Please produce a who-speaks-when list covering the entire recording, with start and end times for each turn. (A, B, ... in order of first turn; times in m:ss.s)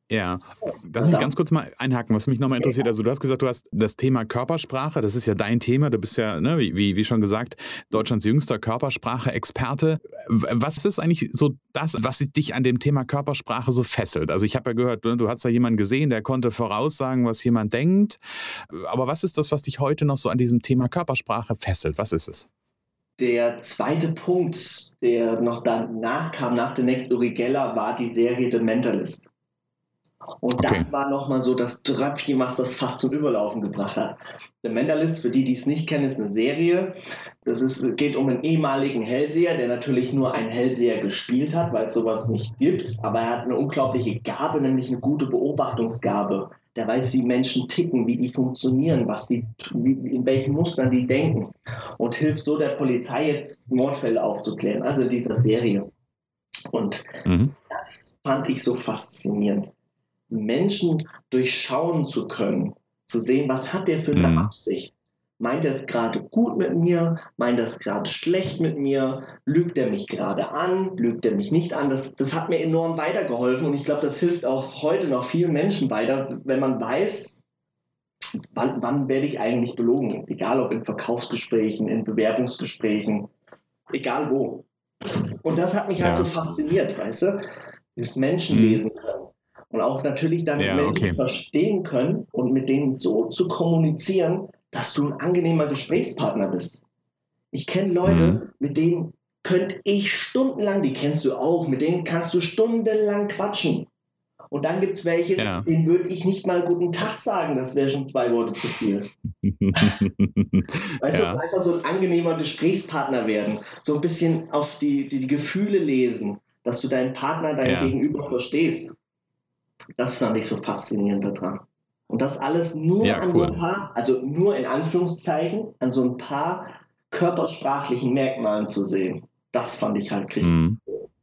0:00.1-0:22.5 A
0:01.0-0:01.3 B
0:23.2-0:29.3 B
0:30.4-0:55.9 B
0:30.6-0:30.9 A
0:56.7-0:59.7 B
0:57.2-0:57.5 A
1:00.3-1:17.4 B
1:04.1-1:04.5 A
1:18.4-1:23.3 B
1:23.9-1:24.7 B
1:25.4-1:27.4 B
1:26.0-1:26.3 A
1:27.9-1:36.8 B
1:28.5-1:28.8 A
1:30.6-1:31.2 A
1:37.5-1:43.9 B
1:38.0-1:38.4 A
1:44.5-1:49.1 B
1:45.4-1:45.7 A
1:49.4-1:51.4 A
1:51.0-1:59.0 B
1:57.6-1:57.9 A
2:00.0-2:10.6 B
2:03.0-2:03.6 A
2:10.4-2:10.8 A